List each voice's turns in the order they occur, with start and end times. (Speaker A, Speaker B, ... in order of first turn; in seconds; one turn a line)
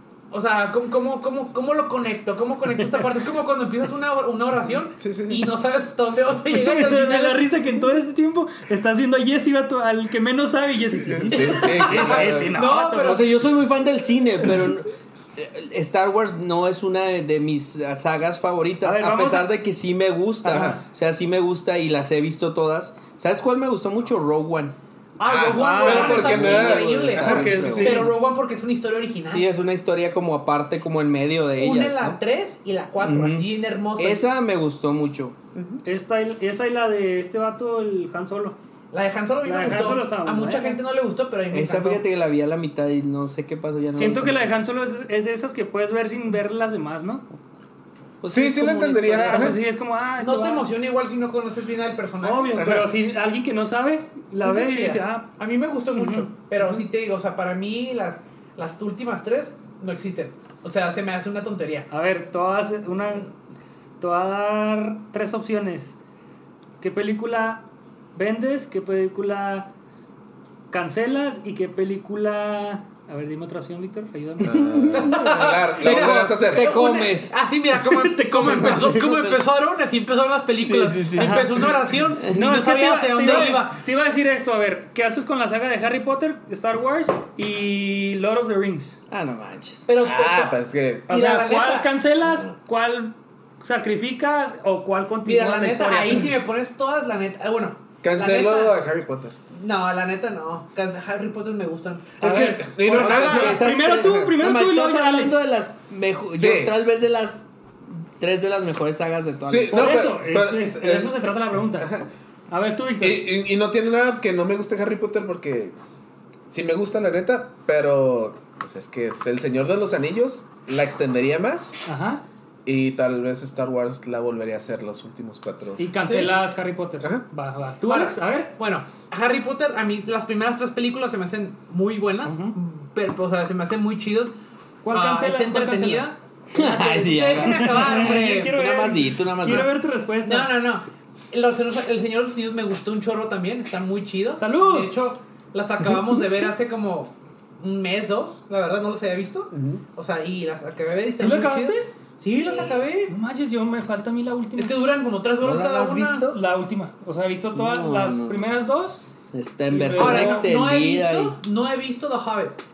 Speaker A: 0.3-7.5
Speaker B: 5.0-5.5
Speaker C: 6.5-13.2
Speaker B: 11.0-12.6
Speaker A: 11.4-13.3
Speaker D: 13.0-24.8
Speaker C: 18.8-19.5
Speaker C: 20.4-20.8
Speaker B: 20.5-20.8
Speaker A: 25.2-29.5
Speaker B: 25.2-28.0
Speaker C: 25.5-26.3
Speaker D: 25.8-28.2
Speaker C: 27.2-28.1
Speaker D: 29.2-32.2
Speaker A: 31.6-34.3
Speaker D: 33.0-35.4
Speaker B: 35.5-35.8
Speaker C: 35.9-38.6
Speaker A: 38.9-42.0
Speaker C: 39.5-40.8
Speaker D: 41.5-44.5
Speaker C: 44.0-47.2
Speaker D: 48.2-49.5
Speaker B: 48.3-49.6
Speaker C: 49.1-50.7
Speaker A: 50.2-52.7
Speaker C: 52.2-55.3
Speaker B: 52.6-52.9
Speaker A: 54.4-61.9
Speaker C: 55.9-56.8
Speaker C: 61.9-63.3
Speaker C: 64.0-66.0
Speaker C: 66.8-69.7
Speaker C: 70.7-74.6
Speaker B: 74.4-76.8
Speaker D: 74.4-77.3
Speaker A: 74.9-83.8
Speaker C: 77.9-79.0
Speaker D: 78.5-79.3
Speaker D: 80.6-81.8
Speaker C: 81.2-81.5
Speaker C: 82.2-89.0
Speaker D: 83.2-83.5
Speaker D: 89.1-89.9
Speaker A: 89.9-90.6
Speaker B: 90.0-91.1
Speaker A: 91.1-91.9
Speaker C: 91.1-96.3
Speaker A: 95.2-98.8
Speaker B: 98.0-99.4
Speaker A: 99.5-102.2
Speaker B: 102.2-103.7
Speaker C: 102.2-105.4
Speaker D: 102.9-110.0
Speaker B: 106.3-106.8
Speaker B: 109.5-112.1
Speaker C: 109.7-111.9
Speaker C: 112.5-113.3
Speaker B: 113.0-115.8
Speaker B: 116.5-121.8
Speaker C: 121.8-122.2
Speaker B: 122.7-125.8
Speaker C: 125.8-128.6
Speaker A: 126.1-126.3
Speaker A: 127.8-134.3
Speaker C: 132.2-132.6
Speaker C: 134.8-136.2
Speaker A: 134.9-138.6
Speaker D: 136.5-139.7
Speaker C: 137.4-140.6
Speaker A: 140.2-153.1
Speaker C: 144.4-144.9
Speaker B: 149.5-149.8
Speaker C: 151.2-151.9
Speaker C: 153.1-154.8
Speaker A: 154.6-156.3
Speaker D: 155.4-156.4
Speaker C: 156.3-159.1
Speaker D: 157.6-158.4
Speaker D: 159.3-161.4
Speaker C: 159.7-160.5
Speaker A: 159.9-162.6